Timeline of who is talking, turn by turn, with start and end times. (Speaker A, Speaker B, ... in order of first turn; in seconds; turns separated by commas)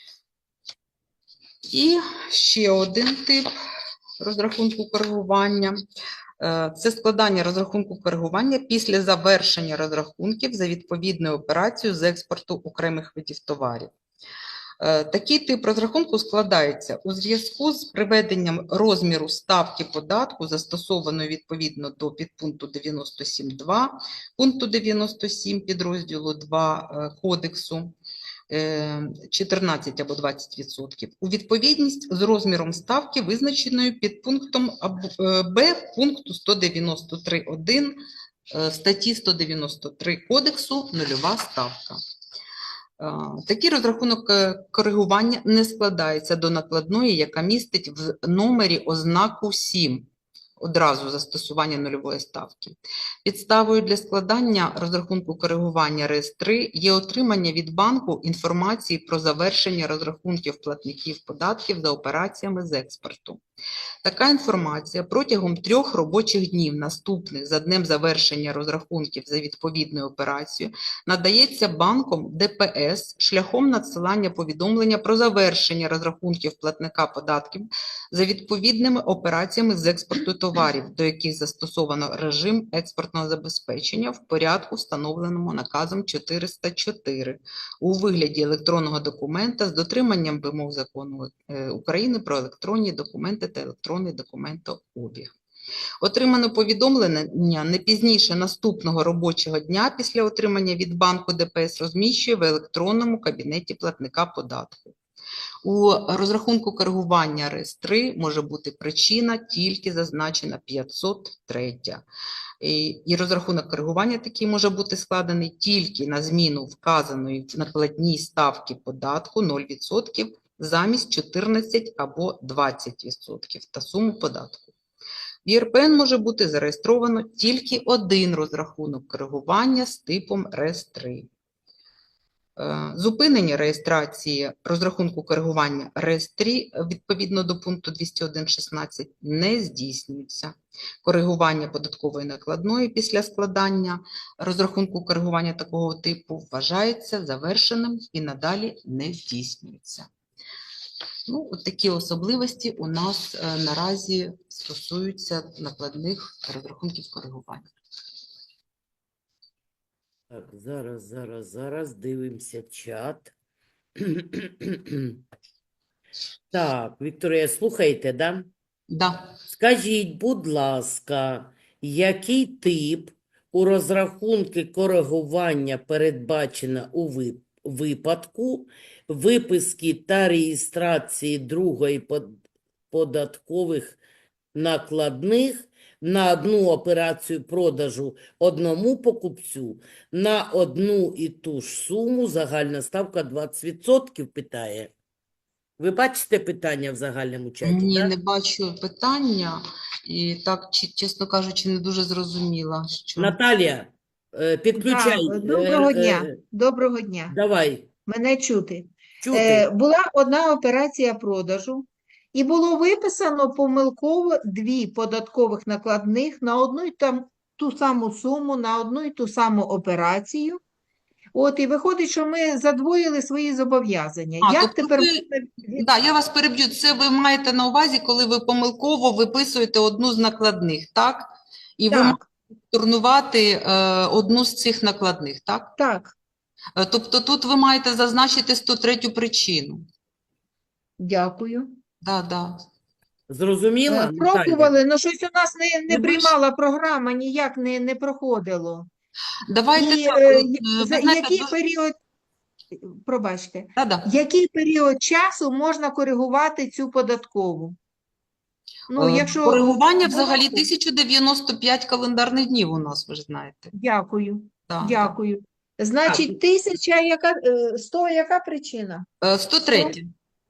Speaker A: 1.7-3.5, Speaker A: 4.2-5.8, Speaker A: 6.4-13.9, Speaker A: 14.8-27.9, Speaker A: 28.5-38.0, Speaker A: 38.5-42.0, Speaker A: 43.0-50.1, Speaker A: 50.6-63.4, Speaker A: 64.0-95.3, Speaker A: 96.0-105.0, Speaker A: 105.6-112.0, Speaker A: 112.6-124.7, Speaker A: 125.4-131.3, Speaker A: 132.6-150.1, Speaker A: 151.3-157.7, Speaker B: 160.3-163.3, Speaker B: 164.0-165.2, Speaker B: 166.5-168.5, Speaker A: 168.9-169.3, Speaker B: 169.5-184.0, Speaker B: 184.5-194.9, Speaker B: 195.8-198.1, Speaker A: 197.6-203.4, Speaker B: 203.2-206.4, Speaker C: 204.7-207.3, Speaker B: 207.3-207.9, Speaker C: 208.1-220.6, Speaker B: 209.2-209.7, Speaker C: 221.3-225.8, Speaker A: 224.4-225.2, Speaker A: 225.7-232.2, Speaker C: 231.9-232.2, Speaker A: 232.7-235.7, Speaker C: 235.8-236.1, Speaker A: 236.8-239.8, Speaker C: 241.0-241.7, Speaker A: 242.0-242.6, Speaker B: 243.3-244.7, Speaker C: 243.9-248.9, Speaker A: 245.9-246.3, Speaker A: 249.5-251.5, Speaker C: 249.8-252.0, Speaker C: 252.7-257.8, Speaker A: 253.8-254.1, Speaker C: 258.9-260.6, Speaker A: 258.9-263.7, Speaker C: 263.7-269.1, Speaker A: 264.7-265.2, Speaker A: 266.1-266.4, Speaker A: 269.2-270.1